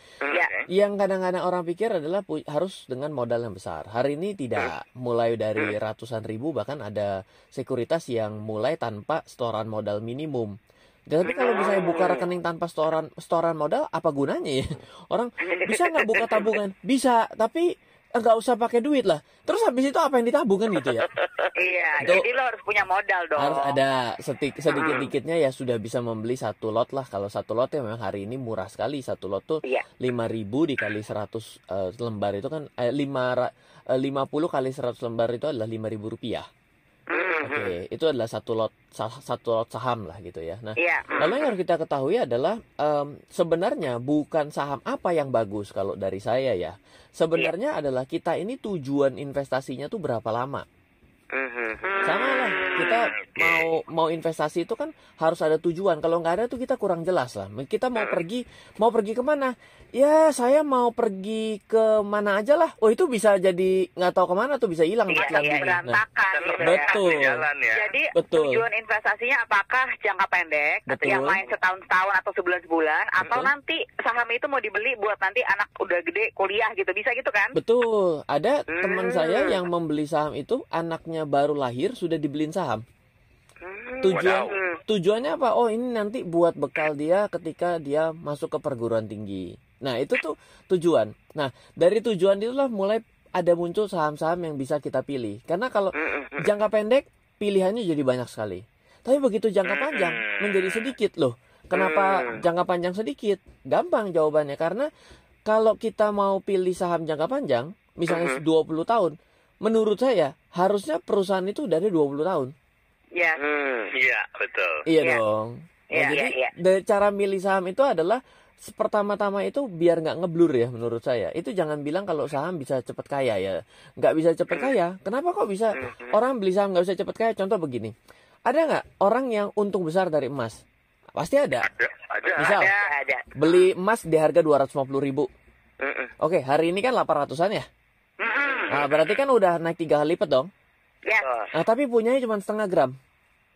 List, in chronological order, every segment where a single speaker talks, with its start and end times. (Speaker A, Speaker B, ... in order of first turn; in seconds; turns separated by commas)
Speaker A: 0.2-0.5, Speaker B: 0.3-0.7, Speaker C: 0.7-10.5, Speaker C: 11.1-21.1, Speaker A: 11.2-12.2, Speaker A: 21.2-21.4, Speaker D: 21.6-23.8, Speaker C: 23.4-36.5, Speaker A: 24.8-25.1, Speaker A: 37.1-37.8, Speaker C: 37.4-50.7, Speaker D: 40.8-41.2, Speaker A: 51.3-52.5, Speaker C: 52.0-66.0, Speaker B: 52.6-53.7, Speaker A: 58.0-58.2, Speaker A: 65.1-65.7, Speaker D: 65.1-67.1, Speaker B: 66.3-67.9, Speaker C: 66.6-67.5, Speaker D: 67.7-77.5, Speaker C: 68.1-68.7, Speaker C: 70.9-71.4, Speaker C: 77.5-82.8, Speaker A: 78.7-79.7, Speaker A: 83.6-84.7, Speaker C: 84.0-104.9, Speaker B: 84.1-84.5, Speaker A: 96.0-96.5, Speaker B: 99.6-100.9, Speaker A: 101.7-102.4, Speaker C: 105.5-112.5, Speaker A: 108.1-108.4, Speaker D: 113.2-113.4, Speaker A: 113.4-113.9, Speaker B: 113.9-114.8, Speaker C: 114.9-127.9, Speaker D: 115.9-116.2, Speaker A: 116.1-116.5, Speaker A: 125.7-126.2, Speaker C: 128.5-130.6, Speaker C: 131.2-131.7, Speaker B: 131.6-132.6, Speaker A: 132.3-133.3, Speaker C: 132.4-132.7, Speaker D: 132.4-132.9, Speaker C: 133.4-135.3, Speaker A: 135.8-136.1, Speaker C: 136.2-137.7, Speaker D: 138.2-138.8, Speaker C: 138.7-140.5, Speaker D: 141.1-141.3, Speaker A: 141.2-141.5, Speaker C: 141.5-142.9